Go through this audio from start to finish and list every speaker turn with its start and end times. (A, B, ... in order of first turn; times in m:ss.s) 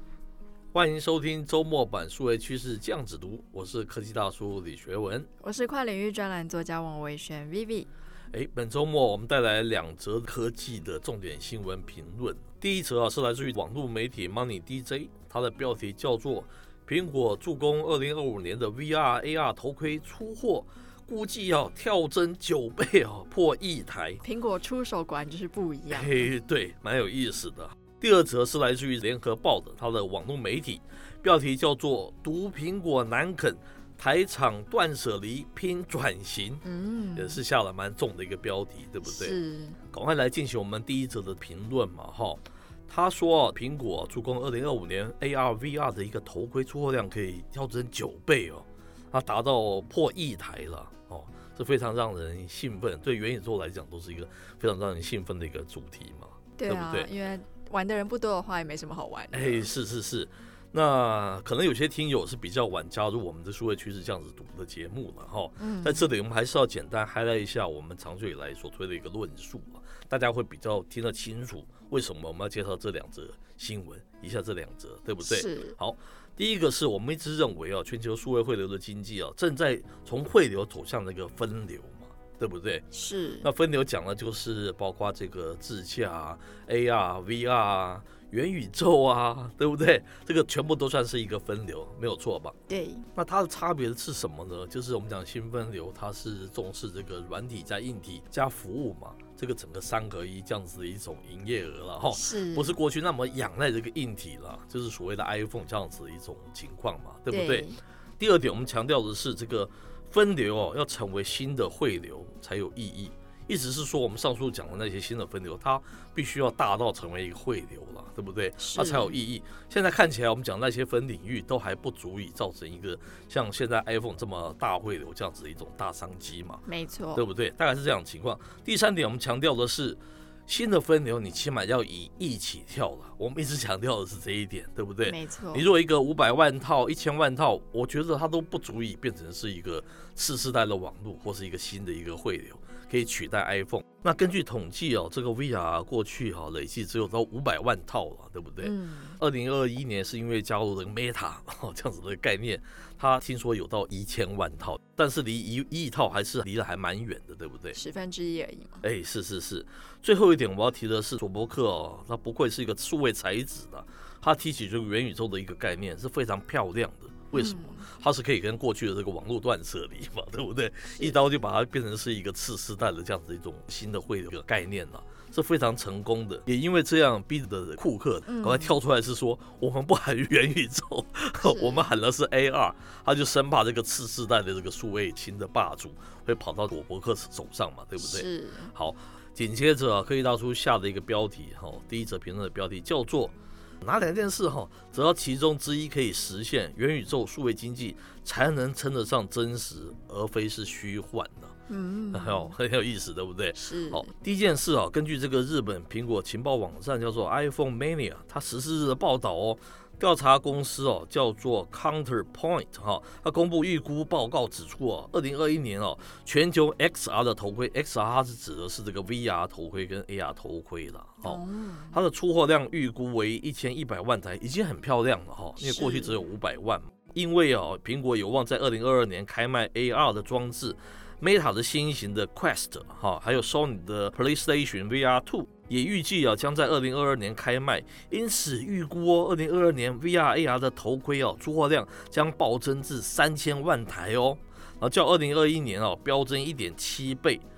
0:00.7-0:05.3 A
0:05.4-0:07.9 B
0:08.3-0:24.2 A
0:24.2-0:26.3 B
0:25.9-0:36.6 A
0:36.6-0:37.4 B
0:37.2-0:39.4 A
0:39.0-0:39.8 B
0:39.9-0:57.1 A
0:56.6-0:59.7 B
0:59.3-1:22.9 A
1:05.6-1:06.1 B
1:15.2-1:15.8 B
1:22.9-1:23.5 B
1:23.4-1:32.6 A
1:32.7-1:33.1 B
1:33.1-2:06.6 A
1:42.1-1:42.8 B
1:47.3-1:47.8 B
1:58.6-1:59.2 B
2:06.7-2:07.2 B
2:07.2-2:37.8 A
2:15.0-2:15.7 B
2:28.6-2:29.2 B
2:37.7-2:38.8 B
2:38.8-3:21.5 A
2:47.3-2:47.9 B
2:58.2-2:58.7 B
3:01.4-3:01.9 B
3:08.0-3:08.7 B
3:21.7-3:22.5 B
3:22.1-3:41.4 A
3:23.5-3:24.1 B
3:41.2-3:42.0 B
3:41.9-4:07.4 A
3:45.6-3:46.2 B